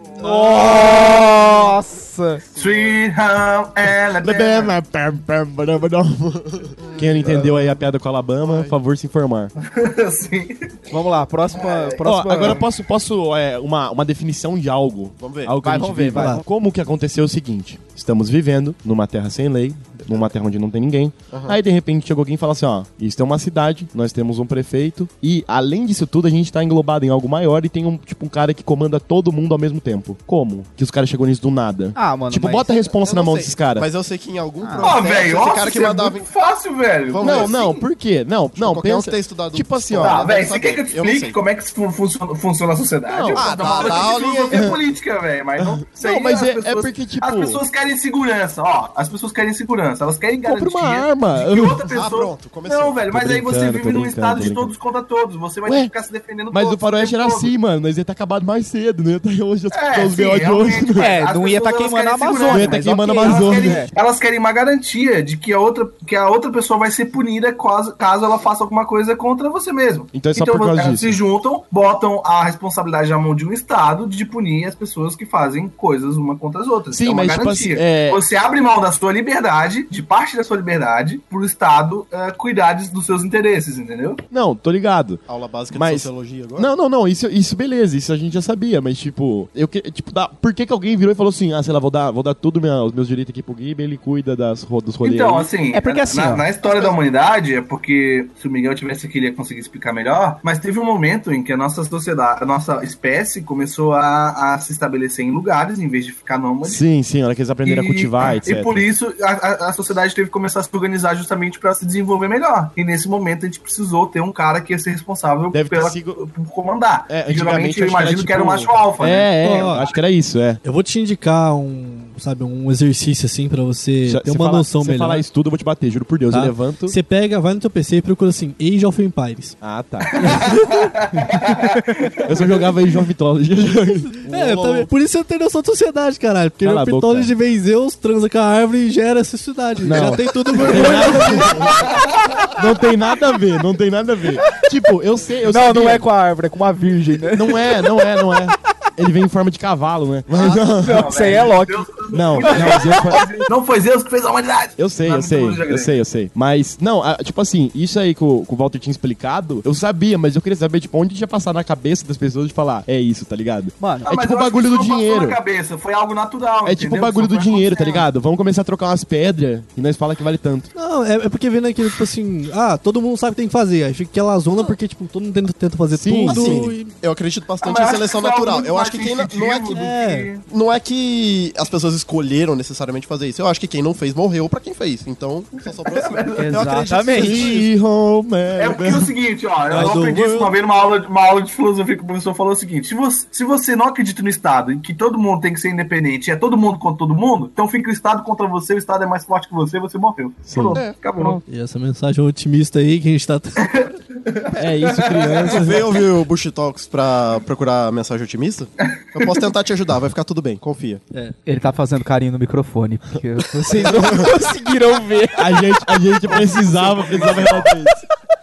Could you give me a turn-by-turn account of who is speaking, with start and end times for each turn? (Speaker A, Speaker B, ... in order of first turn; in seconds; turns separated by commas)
Speaker A: 0.2-2.4, Speaker B: 0.2-0.6, Speaker C: 0.2-1.1, Speaker C: 2.5-3.0, Speaker D: 2.5-4.8, Speaker E: 4.2-9.5, Speaker C: 6.8-7.7, Speaker C: 8.4-8.7, Speaker D: 9.6-10.9, Speaker A: 10.9-12.6, Speaker D: 11.5-12.6, Speaker E: 12.0-33.9, Speaker C: 15.2-15.6, Speaker A: 15.6-16.4, Speaker B: 16.1-16.4, Speaker C: 21.3-21.6, Speaker A: 31.9-32.7, Speaker C: 32.9-36.3, Speaker A: 34.6-34.9, Speaker D: 34.8-37.7, Speaker C: 37.1-37.8, Speaker E: 37.2-40.2, Speaker C: 38.5-41.4, Speaker D: 40.0-57.5, Speaker E: 43.1-44.8, Speaker C: 43.3-44.8, Speaker E: 45.6-47.6, Speaker E: 50.4-51.9, Speaker C: 51.9-53.0, Speaker E: 53.1-54.7, Speaker E: 55.6-55.9, Speaker E: 56.5-61.1, Speaker D: 59.7-84.2, Speaker A: 61.0-63.9, Speaker E: 62.5-63.9, Speaker E: 70.1-71.2, Speaker E: 76.9-78.2, Speaker E: 84.3-95.5, Speaker C: 85.3-86.7, Speaker D: 95.0-106.8, Speaker A: 95.7-96.5, Speaker C: 96.6-97.0, Speaker E: 106.6-108.8, Speaker D: 107.6-120.0, Speaker E: 115.5-116.2, Speaker E: 117.1-120.6, Speaker B: 119.4-119.8, Speaker B: 120.6-125.2, Speaker E: 124.0-127.0, Speaker B: 126.3-129.6, Speaker E: 129.6-130.4, Speaker D: 130.1-132.7, Speaker B: 130.2-131.3, Speaker E: 132.2-134.9, Speaker B: 134.2-141.8, Speaker E: 136.6-137.3, Speaker E: 139.8-141.9, Speaker D: 141.7-142.2, Speaker E: 142.5-146.1, Speaker A: 145.4-148.2, Speaker E: 147.3-151.5, Speaker D: 150.3-156.0, Speaker A: 150.6-151.9, Speaker E: 152.1-153.3, Speaker A: 152.4-153.4, Speaker E: 154.8-165.4, Speaker A: 163.8-164.1, Speaker D: 164.1-168.0, Speaker E: 166.6-170.7, Speaker B: 170.7-177.0, Speaker E: 175.9-176.8, Speaker C: 176.2-179.9, Speaker D: 177.6-180.4, Speaker B: 179.8-180.3, Speaker C: 180.4-187.5, Speaker D: 185.8-186.7, Speaker A: 186.3-187.7, Speaker E: 186.9-189.1, Speaker D: 188.6-201.4, Speaker B: 189.7-190.5, Speaker E: 200.5-200.8, Speaker B: 201.4-203.7, Speaker D: 203.6-205.6, Speaker E: 204.6-205.9, Speaker C: 205.4-211.0, Speaker D: 208.9-209.4, Speaker A: 211.4-215.4, Speaker E: 213.9-214.2, Speaker E: 215.3-218.0, Speaker D: 216.3-217.7